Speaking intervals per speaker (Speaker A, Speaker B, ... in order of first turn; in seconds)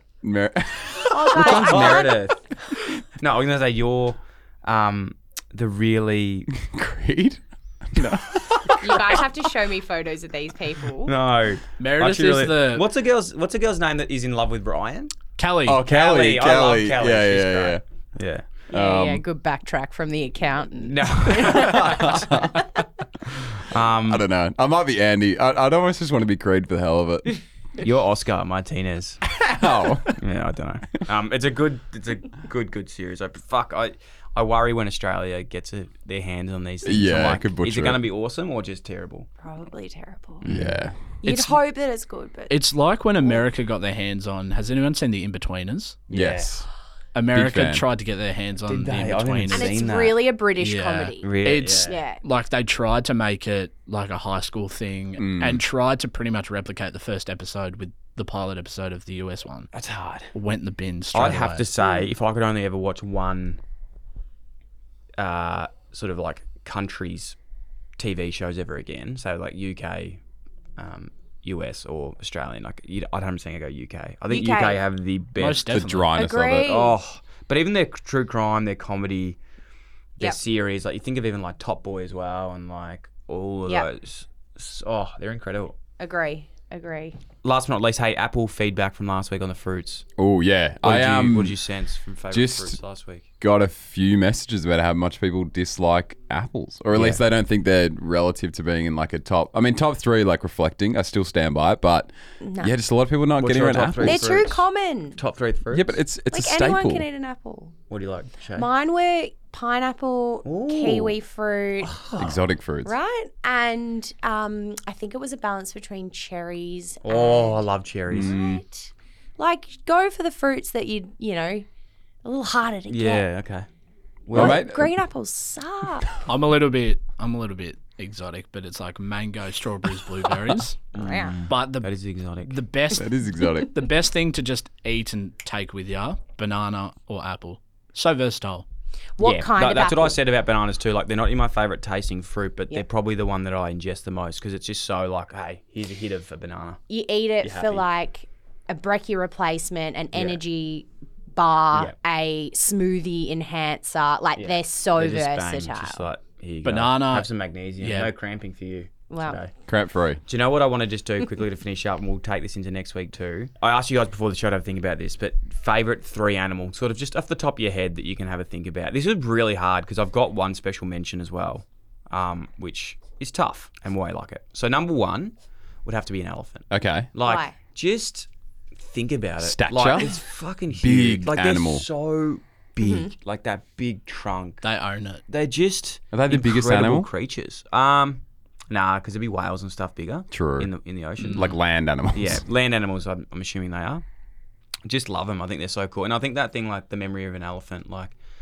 Speaker A: 0.2-2.2, 6.5-9.3, 15.7-17.8, 18.7-19.2, 21.4-22.7, 24.0-27.4, 29.3-30.2, 36.8-38.0, 40.5-41.0, 46.1-46.7, 47.3-47.8, 55.2-55.6, 75.7-76.8, 90.2-91.6, 92.3-92.8, 93.4-104.5, 105.7-107.0, 112.2-112.9, 118.1-118.6, 124.3-124.9, 132.9-133.7, 159.7-160.2, 176.7-177.1, 179.4-180.2, 180.7-181.9, 186.1-187.1, 190.3-190.7, 191.2-192.4
Speaker B: 1.1-2.3, 8.8-11.1, 18.7-22.4, 39.4-40.5, 41.2-42.5, 49.5-52.2, 61.8-62.1, 74.3-74.8, 76.1-77.0, 86.0-87.2, 102.4-102.7, 104.0-105.2, 106.3-107.8, 108.5-111.9, 112.8-117.6, 118.2-121.7, 122.2-123.2, 124.3-126.1, 130.9-131.4, 139.2-140.2, 146.9-156.0, 159.1-159.4, 177.2-177.6, 182.8-183.1
Speaker C: 1.4-2.4, 3.2-6.5, 11.0-15.2, 15.8-18.5, 20.8-22.5, 23.6-24.2, 27.8-29.2, 30.1-39.3, 40.4-40.8, 46.1-46.5, 48.7-50.2, 51.2-52.0, 59.7-60.3, 61.1-63.6, 65.2-67.4, 68.0-70.2, 70.8-75.7, 76.6-79.4, 80.2-85.8, 87.4-90.1, 90.8-93.3, 96.9-97.2, 103.4-104.7, 105.2-106.0, 107.9-108.7, 110.4-111.2, 111.8-112.4, 117.0-118.4, 122.9-123.7, 124.3-124.7, 130.9-132.6, 139.2-146.8, 147.4-147.8, 150.1-150.4, 154.4-159.5, 160.3-184.6, 185.3-191.6, 192.1-194.0, 194.8-198.2
Speaker D: 11.8-12.9, 15.4-15.8, 42.5-46.0, 47.1-49.9, 50.6-59.7, 60.3-61.7, 75.4-76.1, 126.3-130.8, 131.5-138.7, 156.6-158.1, 184.6-185.2, 191.2-191.5